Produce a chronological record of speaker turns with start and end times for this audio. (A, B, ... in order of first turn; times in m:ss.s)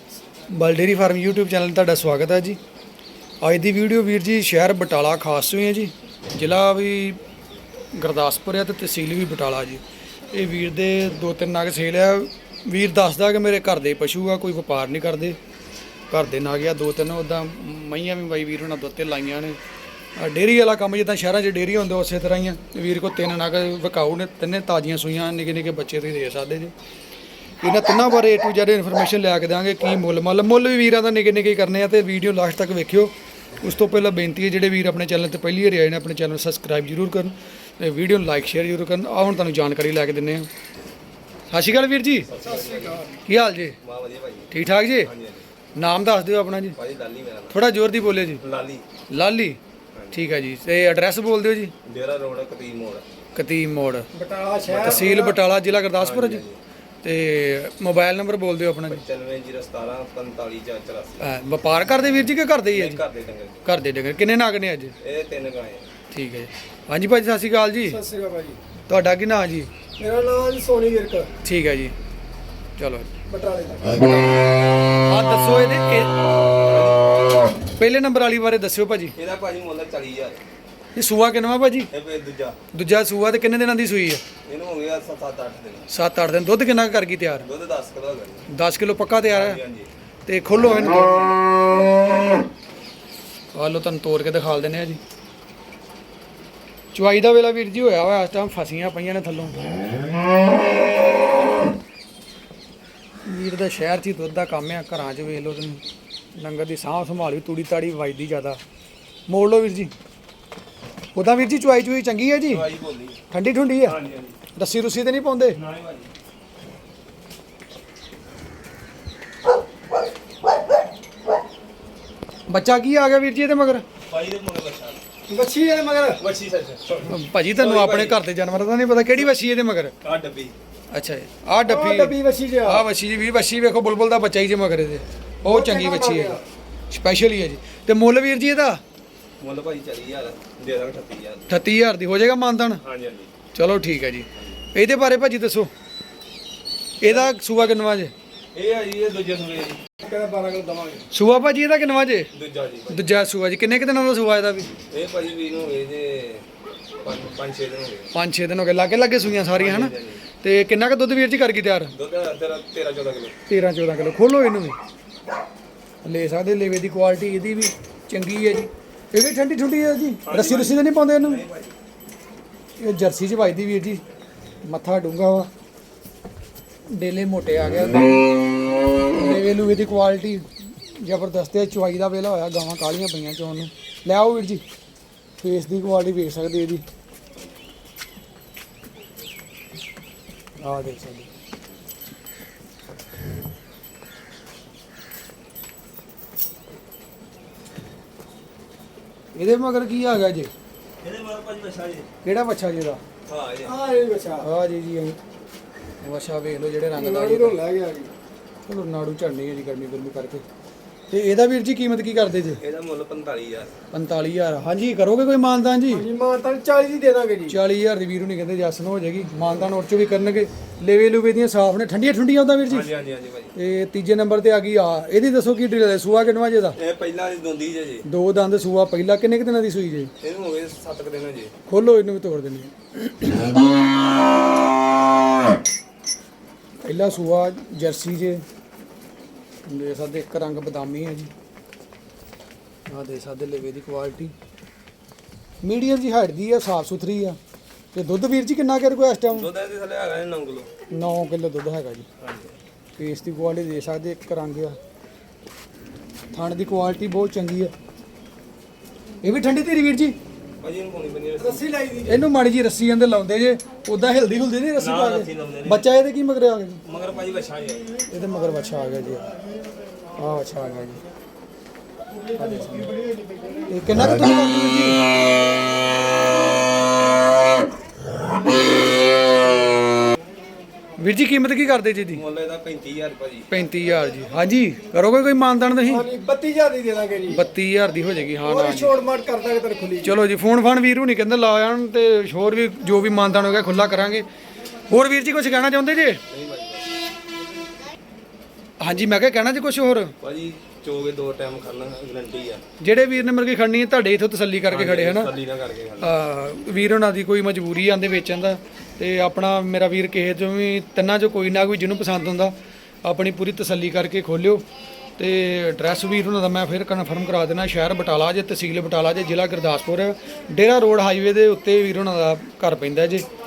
0:00.5-0:02.6 A
0:03.4-0:07.2 A
0:08.0-0:15.4 A
0:16.1-0:19.6 A
0:20.2-0:26.7 A
0:27.6-0:40.5 A
0:41.5-0:42.3 A
0:42.3-0:43.1 B
0:42.4-0:43.2 C
0:43.3-0:43.8 A
0:43.8-0:44.5 B
0:44.5-0:45.1 A
0:45.0-0:45.5 B
0:45.8-0:46.8 A
0:46.8-0:47.6 B
0:47.5-0:48.4 A
0:48.4-0:48.8 B
0:49.1-0:49.6 A
0:49.9-0:50.2 B
0:50.1-0:51.7 A
0:51.8-0:53.0 B
0:53.4-0:54.1 A
0:54.1-0:55.4 C
0:54.7-0:55.1 B
0:54.8-0:56.4 A
0:55.9-0:56.6 B
0:57.0-0:59.0 A
0:58.9-1:01.3 B
1:01.2-1:03.0 A
1:02.7-1:03.7 B
1:03.6-1:04.9 A
1:05.0-1:05.9 B
1:06.1-1:08.0 A
1:07.8-1:08.6 C
1:08.9-1:09.7 A
1:10.0-1:11.3 C
1:11.4-1:12.0 A
1:12.8-1:13.1 A
1:13.3-1:14.2 C
1:14.0-1:14.4 A
1:15.0-1:16.4 A
1:16.6-1:17.3 B
1:17.8-1:19.2 A
1:19.2-1:20.4 B
1:21.0-1:21.9 A
1:21.9-1:22.6 B
1:22.7-1:24.2 A
1:24.5-1:25.9 B
1:25.9-1:27.5 A
1:27.4-1:28.5 B
1:28.5-1:29.6 A
1:29.3-1:29.9 B
1:30.3-1:31.4 A
1:33.6-1:35.0 A
1:36.9-1:39.6 A
1:43.3-1:45.8 A
1:46.4-1:48.6 A
1:49.3-1:49.9 A
1:51.1-1:52.7 A
1:52.5-1:53.2 B
1:53.3-1:54.0 A
1:53.8-1:54.4 B
1:54.6-1:55.6 A
1:55.6-1:56.1 B
2:02.5-2:03.8 A
2:04.0-2:05.0 B
2:05.3-2:06.2 C
2:06.2-2:08.2 B
2:07.1-2:09.9 A
2:10.0-2:10.5 B
2:10.9-2:18.8 A
2:11.6-2:12.8 C
2:15.4-2:16.4 C
2:19.4-2:21.5 B
2:21.5-2:22.8 A
2:22.8-2:23.3 B
2:23.6-2:25.7 A
2:27.0-2:28.1 A
2:27.0-2:27.3 B
2:28.5-2:29.8 B
2:30.0-2:31.1 C
2:31.1-2:32.3 A
2:32.3-2:33.2 B
2:32.9-2:34.7 A
2:34.9-2:36.4 B
2:37.0-2:38.1 B
2:38.1-2:41.9 A
2:39.6-2:40.2 B
2:41.9-2:43.3 B
2:43.5-2:44.8 A
2:46.0-2:51.4 A
2:50.2-2:51.7 B
2:52.8-2:54.0 A
2:54.6-2:55.5 A
2:56.9-2:58.1 A
2:59.0-3:04.6 A
3:05.4-3:06.8 A
3:10.6-3:11.3 A
3:19.4-3:20.5 A
3:21.0-3:22.1 B
3:22.2-3:23.0 A
3:23.3-3:23.8 B
3:23.6-3:24.5 C
3:24.4-3:25.2 A
3:26.0-3:27.6 A
3:27.0-3:28.1 C
3:28.7-3:30.4 A
3:31.1-3:32.6 A
3:32.6-3:33.8 B
3:33.9-3:36.1 A
3:35.9-3:37.6 C
3:37.5-3:42.9 A
3:42.7-3:43.6 B
3:43.6-3:46.8 A
3:46.8-3:48.1 B
3:48.1-3:50.1 A
3:50.2-3:51.5 B
3:51.7-3:53.6 A
3:56.8-3:58.4 A
3:59.7-4:01.3 A
4:02.9-4:04.3 A
4:05.6-4:07.4 A
4:07.9-4:09.5 A
4:09.3-4:10.7 B
4:10.9-4:12.1 A
4:12.2-4:12.6 B
4:13.0-4:14.8 A
4:16.3-4:17.7 A
4:19.2-4:20.2 A
4:20.6-4:22.0 B
4:21.4-4:22.2 C
4:22.1-4:26.8 A
4:24.8-4:25.9 B
4:26.8-4:27.9 B
4:28.1-4:29.3 A
4:30.2-4:31.0 A
4:32.4-4:32.9 A
4:33.7-4:35.0 A
4:41.0-4:42.2 A
4:42.1-4:43.5 B
4:43.5-4:46.1 A
4:45.8-4:47.4 C
4:47.3-4:49.0 A
4:48.4-4:50.2 C
4:50.0-4:54.3 A
4:54.9-4:56.2 A
4:56.3-4:56.9 B
4:58.8-5:00.1 A
5:00.2-5:02.6 B
5:02.8-5:05.3 A
5:04.7-5:06.2 B
5:06.0-5:14.6 A
5:15.2-5:23.3 A